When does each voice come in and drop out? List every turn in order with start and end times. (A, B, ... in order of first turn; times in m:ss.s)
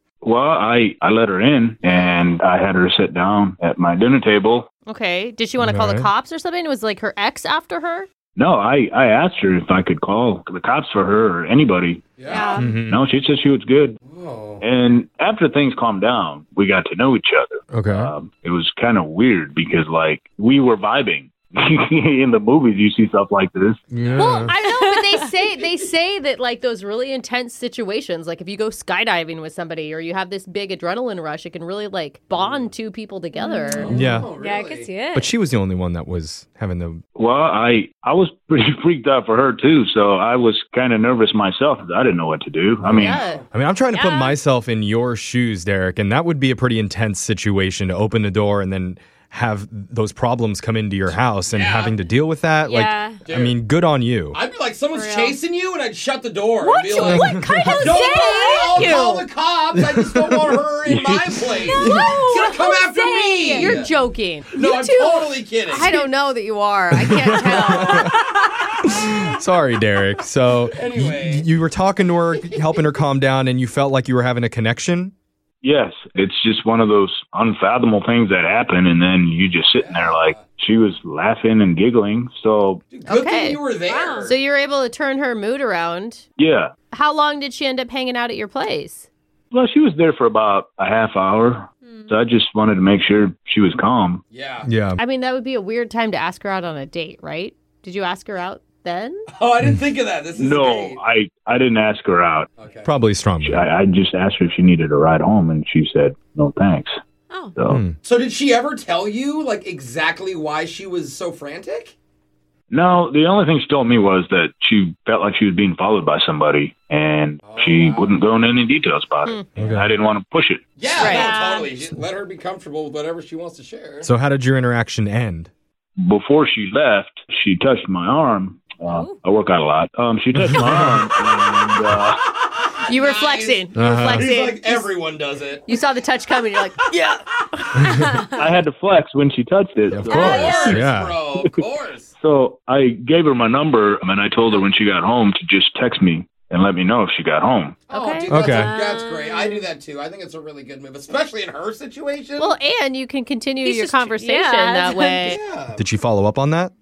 0:00.2-0:04.7 A
0:01.8-0:02.2 B
0:04.8-0:08.1 B
0:05.6-0:06.1 C
0:08.4-0:14.0 A
0:12.2-0:12.6 D
0:12.3-0:12.7 E
0:12.6-0:13.0 C
0:14.0-0:14.6 D
0:14.6-0:23.8 A
0:17.7-0:18.1 C
0:23.9-0:24.5 C
0:24.0-0:24.3 D
0:24.2-0:34.0 B
0:24.5-0:25.2 E
0:33.4-0:35.3 E
0:33.7-0:34.9 D
0:33.9-0:34.3 C
0:35.1-0:37.0 C
0:37.2-0:43.2 A
0:42.8-0:54.4 C
0:43.0-0:43.4 B
0:43.2-0:43.4 D
0:43.9-0:44.4 E
0:51.1-0:52.0 D
0:52.6-0:53.2 E
0:53.2-0:53.6 D
0:54.3-1:03.9 D
0:54.9-0:55.3 B
0:56.6-0:59.2 E
0:56.8-0:59.2 B
0:57.0-0:57.8 C
0:59.8-1:00.6 C
1:00.9-1:01.5 A
1:01.6-1:03.8 E
1:01.8-1:02.6 B
1:03.5-1:08.2 B
1:04.5-1:05.9 D
1:07.0-1:08.2 C
1:08.8-1:15.1 C
1:10.6-1:11.5 D
1:12.3-1:12.9 D
1:15.6-1:22.8 A
1:19.7-1:20.4 D
1:22.9-1:24.4 D
1:23.0-1:23.6 B
1:23.8-1:24.3 E
1:24.2-1:26.2 B
1:26.4-1:26.7 A
1:26.9-1:29.1 B
1:29.5-1:34.2 A
1:31.8-1:32.1 E
1:34.3-1:34.7 D
1:34.6-1:35.0 C
1:35.0-1:39.3 B
1:39.3-1:41.0 D
1:40.3-1:42.5 A
1:42.6-1:42.9 D
1:42.8-1:43.7 C
1:43.4-1:47.0 A
1:47.6-1:47.8 A
1:47.6-1:48.0 C
1:48.0-1:52.0 D
1:52.7-2:00.6 A
1:57.4-1:58.2 D
1:59.6-1:59.9 C
2:00.8-2:04.1 D
2:01.0-2:01.3 B
2:01.0-2:01.7 E
2:04.0-2:05.5 C
2:06.0-2:12.2 A
2:08.8-2:09.2 E
2:10.4-2:11.1 C
2:12.3-2:15.8 D
2:12.9-2:14.9 B
2:13.8-2:14.3 C
2:15.7-2:17.9 B
2:17.8-2:18.0 C
2:18.0-2:18.4 E
2:18.3-2:20.6 A
2:19.9-2:21.2 C
2:20.1-2:20.8 E
2:20.1-2:22.1 D
2:22.2-2:27.8 A
2:27.9-2:32.5 D
2:27.9-2:28.4 B
2:28.3-2:28.7 C
2:28.4-2:29.7 E
2:32.4-2:35.4 B
2:33.6-2:35.4 E
2:35.2-2:35.8 D
2:35.8-2:36.7 C